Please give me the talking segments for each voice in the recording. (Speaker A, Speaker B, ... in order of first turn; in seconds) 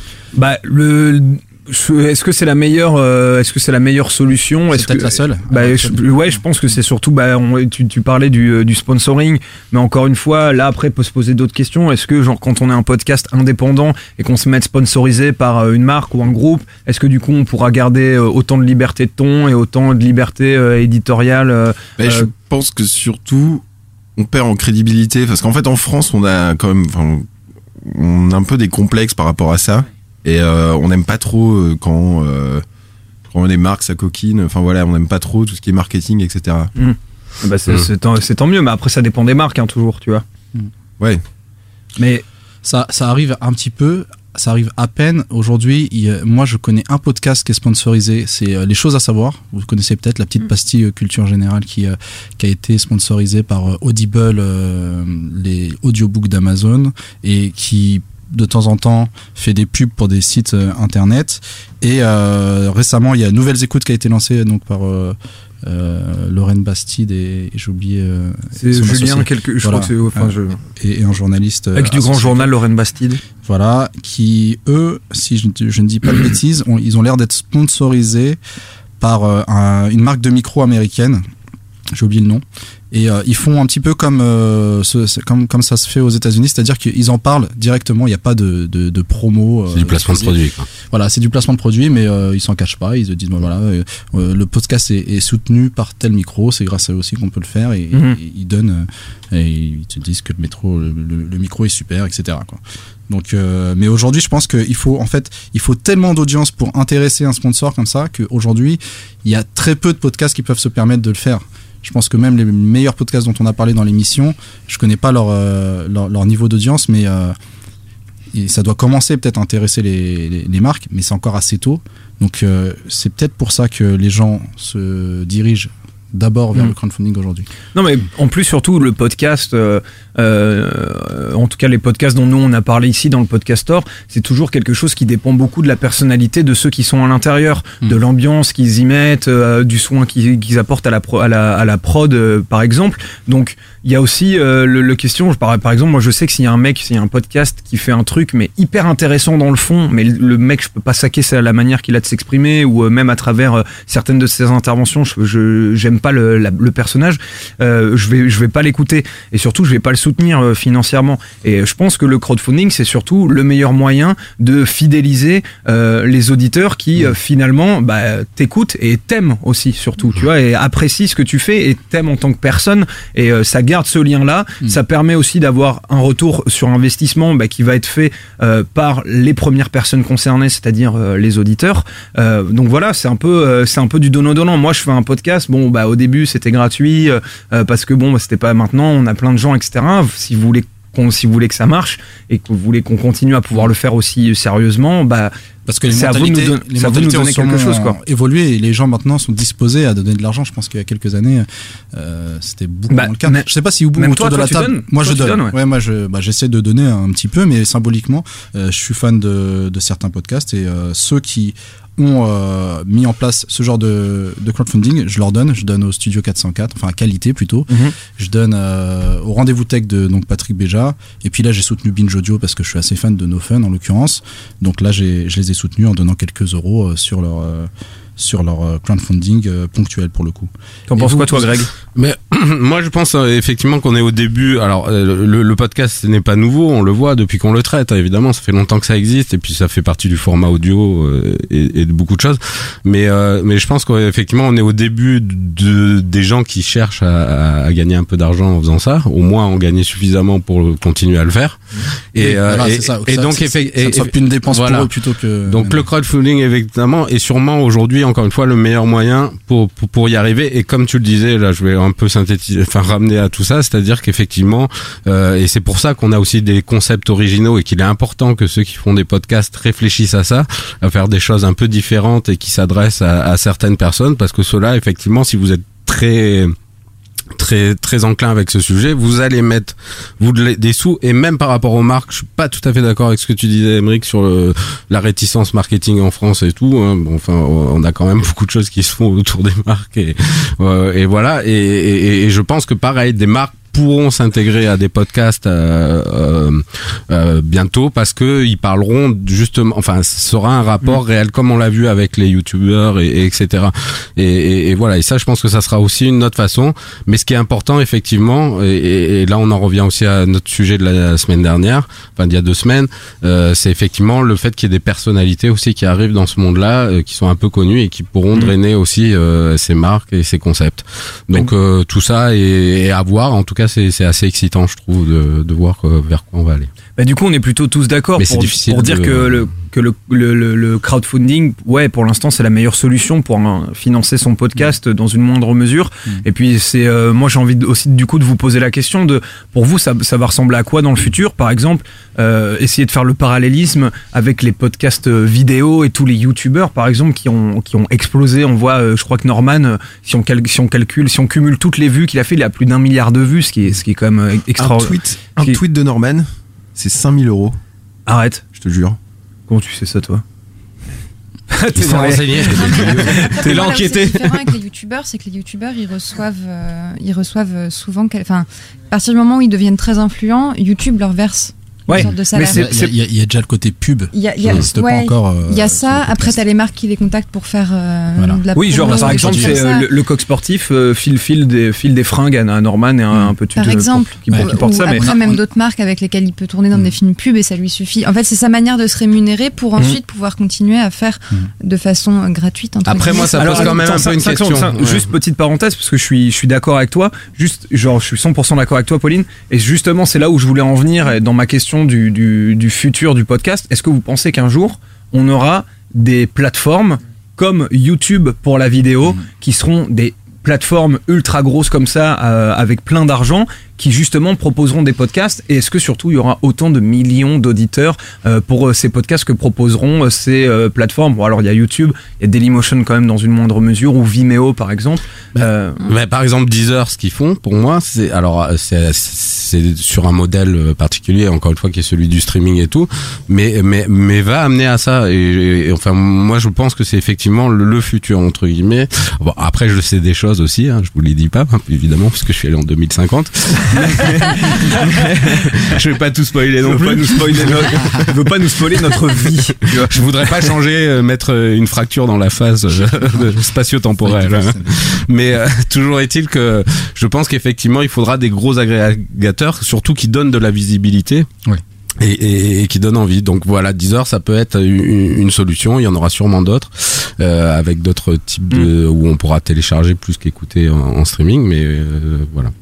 Speaker A: 0.3-22.3, 36.8-40.2, 42.0-42.2, 68.6-70.6, 71.7-73.2, 97.9-98.2, 127.7-195.3, 195.9-198.0, 202.9-205.5, 217.7-217.9, 230.9-231.7, 326.9-355.6, 358.1-358.4, 359.5-360.2, 361.5-363.6, 371.9-372.9, 378.5-385.1, 393.3-425.8, 443.8-444.9, 446.6-450.0
Speaker B: 4.7-6.4, 42.6-72.5, 73.4-78.4, 79.0-81.2, 81.9-117.3, 118.3-127.5, 195.7-231.2, 252.2-255.9, 371.9-376.4, 378.1-379.7, 384.3-385.4, 454.0-454.8
Speaker C: 22.0-23.6, 24.2-27.3, 27.8-32.6, 33.3-36.7, 354.6-357.6, 358.5-359.0
Speaker D: 89.7-90.7, 231.9-251.6, 252.1-254.9, 255.5-276.5, 277.4-326.7, 328.2-329.5, 361.8-364.4, 392.8-395.1, 425.4-448.0, 449.8-461.3, 462.0-472.5
Speaker E: 362.5-372.6, 374.1-379.9, 383.5-393.9